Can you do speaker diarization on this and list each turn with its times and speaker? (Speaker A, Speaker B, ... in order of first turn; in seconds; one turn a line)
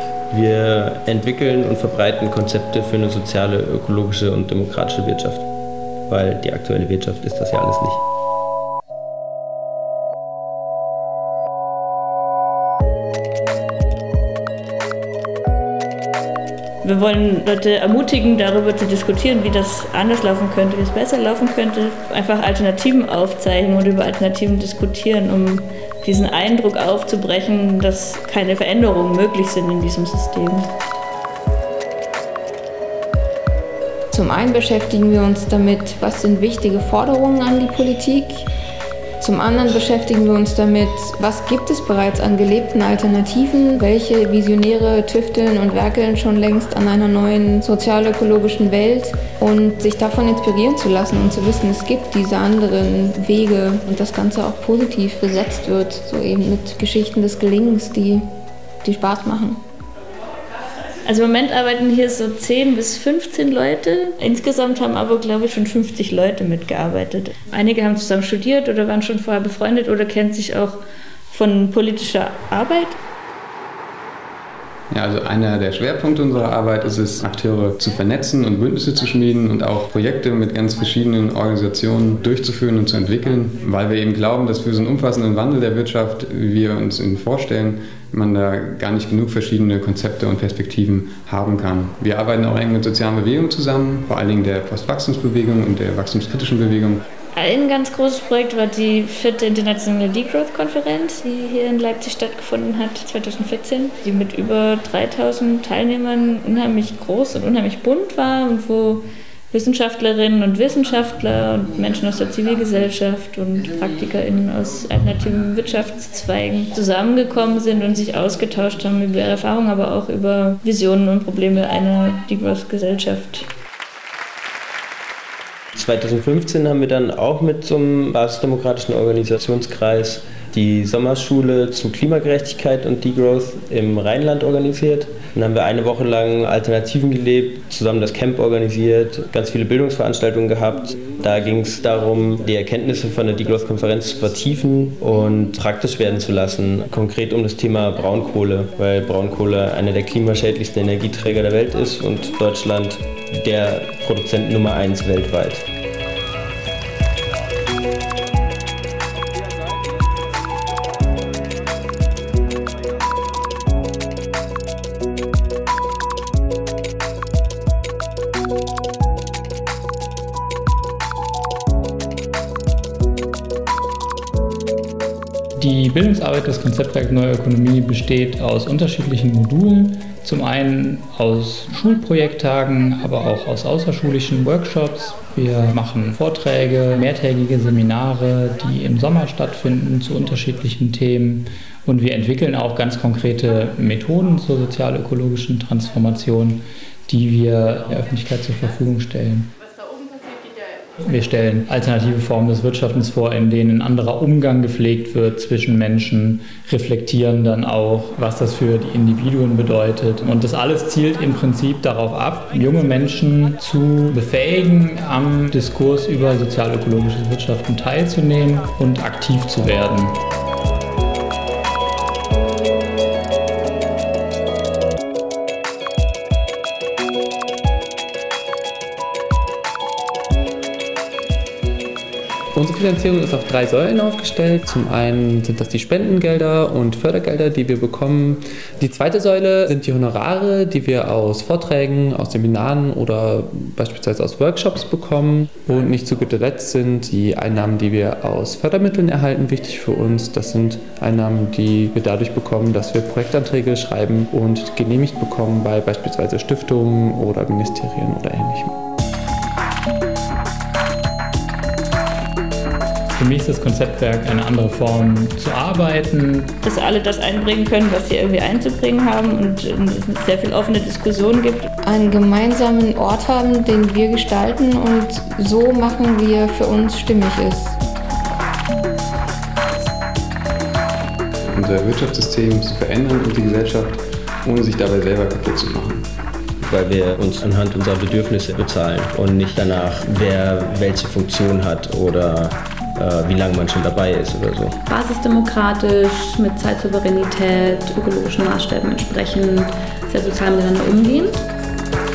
Speaker A: 0.3-5.5
Speaker A: 6.1-8.0
Speaker B: 16.8-30.7
Speaker C: 34.1-38.5
Speaker C: 39.2-58.2
Speaker C: 58.8-59.6
Speaker B: 61.0-73.0
Speaker D: 74.9-97.0
Speaker B: 97.4-123.5
Speaker A: 125.8-155.6
Speaker E: 175.6-199.5
Speaker E: 201.0-220.2
Speaker F: 232.5-258.8
Speaker E: 263.1-266.5
Speaker B: 266.6-271.7
Speaker C: 271.9-277.8
Speaker D: 281.5-286.0
Speaker A: 286.6-294.8
Speaker G: 294.9-301.4